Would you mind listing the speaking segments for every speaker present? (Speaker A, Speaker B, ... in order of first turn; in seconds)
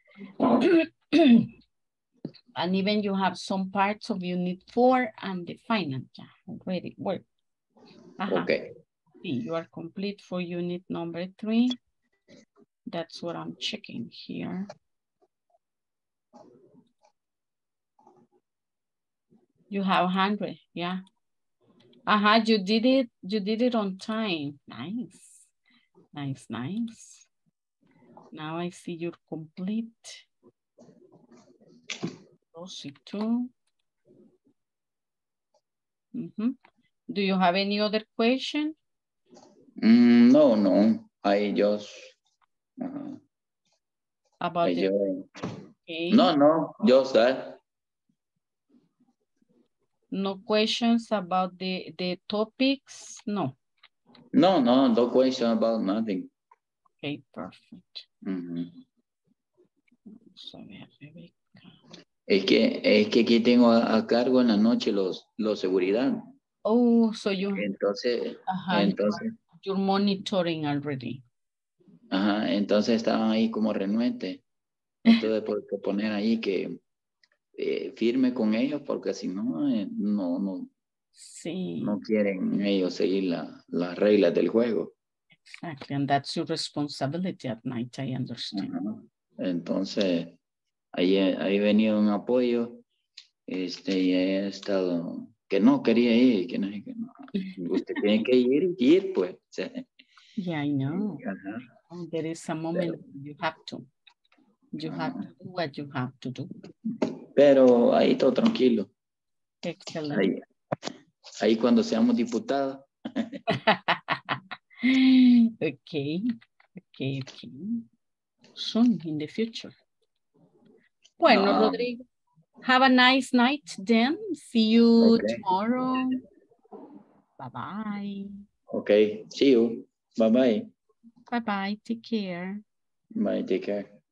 Speaker A: 0.4-1.5, 2.5-7.2, 8.2-8.5, 9.2-11.8, 12.9-14.7, 19.7-21.0, 22.1-25.5, 26.1-27.3, 28.3-30.2, 32.5-33.5, 36.1-36.6, 37.1-38.7, 44.4-44.9, 45.9-46.2, 50.1-53.5, 57.0-58.0, 60.2-61.7, 66.6-67.7, 68.5-71.2, 81.2-82.0, 85.4-88.7, 100.4-101.2, 101.9-103.8, 104.7-106.5, 109.6-110.3, 113.5-116.2, 116.8-117.8, 118.5-119.7, 121.2-122.0, 122.6-126.2, 127.4-128.4, 131.3-132.6
Speaker B: 8.3-8.6, 39.8-42.1, 42.8-43.2, 44.6-45.3, 46.1-47.6, 54.3-56.3, 58.2-58.8, 62.3-66.3, 67.5-69.3, 72.1-74.4, 75.0-76.8, 77.5-80.7, 81.8-84.9, 88.5-90.4, 90.9-92.8, 93.5-99.8, 100.9-101.6, 104.8-105.3, 107.3-108.9, 110.1-110.4, 111.4-113.4, 121.2-121.9, 125.0-125.4, 128.7-130.7, 133.1-133.9